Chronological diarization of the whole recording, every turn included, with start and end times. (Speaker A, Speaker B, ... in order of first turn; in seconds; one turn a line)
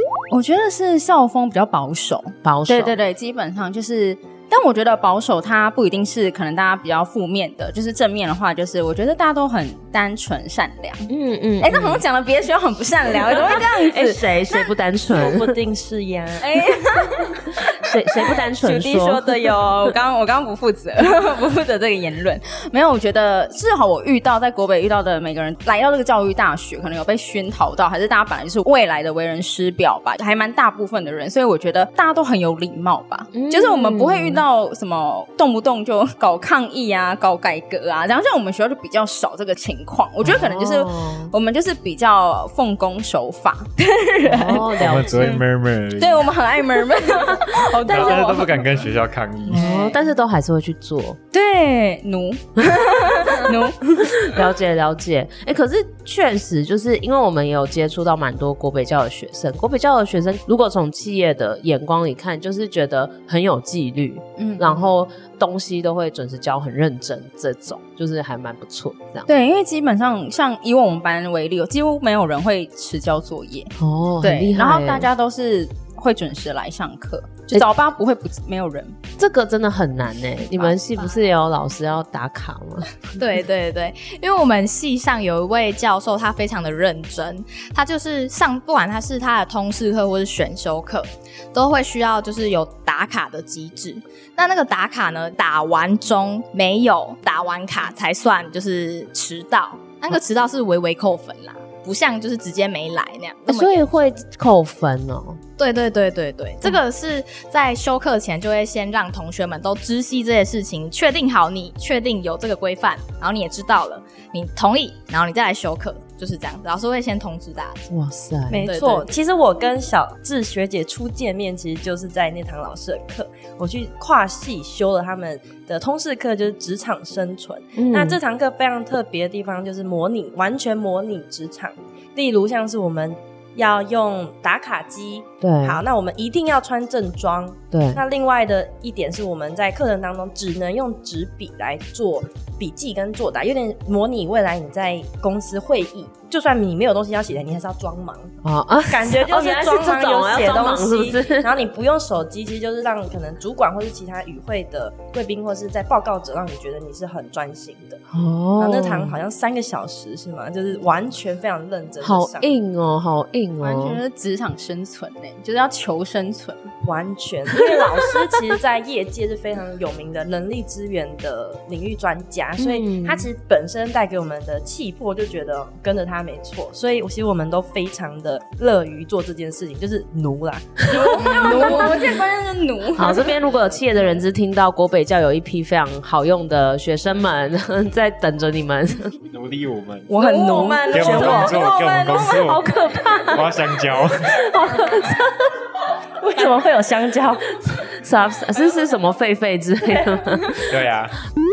Speaker A: 0.3-11.1
Speaker B: 2.4-3.0
Speaker B: 11.1-12.0
Speaker A: 11.6-14.3
Speaker B: 13.1-15.5
Speaker C: 15.1-16.5
Speaker A: 16.4-17.3
Speaker B: 17.8-19.3
Speaker A: 18.2-45.4
Speaker B: 33.3-34.4
Speaker B: 40.2-41.3
Speaker B: 44.2-45.3
Speaker D: 44.8-46.4
Speaker A: 46.0-48.7
Speaker D: 47.4-49.8
Speaker B: 47.9-48.2
Speaker B: 49.5-51.2
Speaker A: 49.5-49.9
Speaker A: 51.3-54.0
Speaker B: 54.0-69.3
Speaker A: 64.4-64.9
Speaker A: 69.3-79.0
Speaker B: 73.8-75.1
Speaker B: 79.2-82.9
Speaker E: 83.2-103.9
Speaker B: 103.5-105.4
Speaker E: 105.6-117.9
Speaker B: 117.9-118.7
Speaker C: 118.5-148.3
Speaker E: 118.7-119.1
Speaker B: 127.8-128.2
Speaker B: 135.4-135.8
Speaker B: 137.7-138.0
Speaker B: 148.4-151.7
Speaker C: 148.8-158.0
Speaker B: 158.1-159.2
Speaker C: 158.6-162.5
Speaker B: 162.0-164.0
Speaker A: 163.6-166.7
Speaker C: 166.8-181.8
Speaker B: 172.6-173.3
Speaker A: 180.9-183.4
Speaker B: 181.1-181.9
Speaker B: 182.9-189.2
Speaker D: 189.3-190.1
Speaker C: 190.1-191.6
Speaker A: 190.2-192.6
Speaker D: 190.9-192.7
Speaker B: 192.3-193.6
Speaker D: 193.3-194.4
Speaker B: 194.3-195.5
Speaker C: 196.2-197.5
Speaker B: 197.9-200.8
Speaker D: 200.7-201.2